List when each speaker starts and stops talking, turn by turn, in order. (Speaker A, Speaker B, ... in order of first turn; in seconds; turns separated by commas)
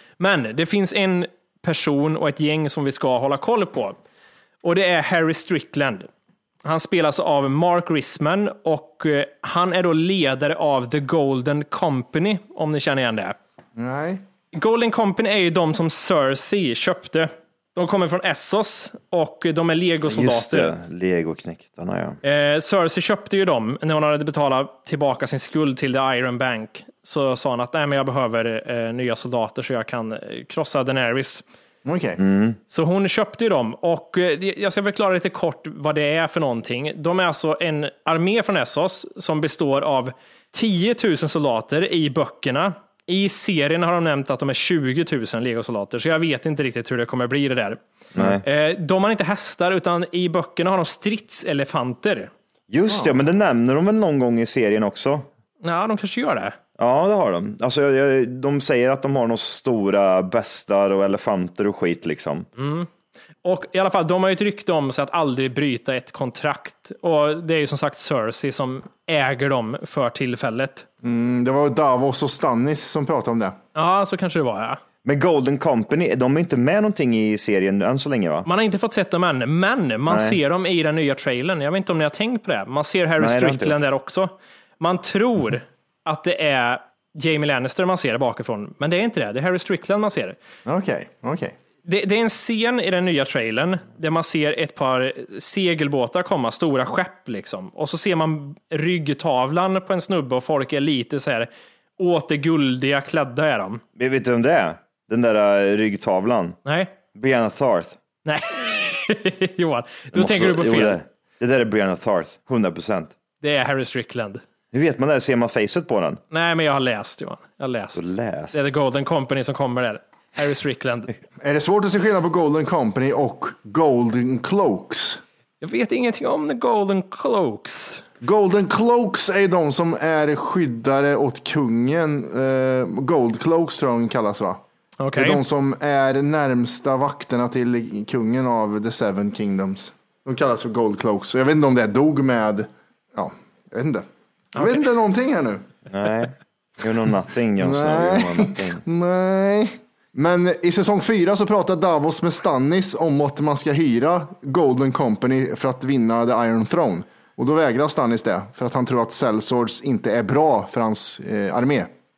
Speaker A: 0.2-4.0, Speaker A: 4.6-6.1, Speaker A: 6.6-13.3, Speaker B: 13.8-14.2, Speaker A: 14.5-20.7, Speaker C: 20.1-22.2, Speaker A: 22.2-31.4, Speaker B: 31.8-32.2, Speaker C: 32.2-32.6, Speaker A: 32.7-47.8, Speaker C: 48.1-48.4, Speaker A: 48.4-52.3, Speaker C: 52.7-55.3, Speaker B: 52.9-53.1, Speaker A: 55.6-56.6, Speaker C: 56.8-62.5, Speaker A: 62.6-62.9, Speaker A: 63.4-70.8, Speaker B: 71.0-73.5, Speaker A: 73.7-74.8, Speaker C: 75.0-78.5, Speaker A: 78.5-90.4, Speaker C: 80.1-80.4, Speaker C: 83.2-83.8, Speaker B: 90.7-91.5, Speaker A: 91.8-103.8, Speaker C: 104.0-106.6, Speaker A: 106.6-106.9, Speaker C: 107.1-108.0, Speaker A: 108.2-111.0, Speaker C: 110.1-113.1, Speaker A: 113.4-114.4, Speaker C: 114.7-116.2, Speaker A: 116.3-118.0, Speaker C: 117.9-118.6, Speaker A: 118.5-121.1, Speaker B: 121.4-125.2, Speaker A: 125.6-128.0, Speaker B: 128.2-134.6, Speaker A: 135.0-135.4, Speaker B: 135.1-145.7, Speaker A: 144.6-144.8, Speaker C: 145.9-148.8, Speaker B: 147.6-161.9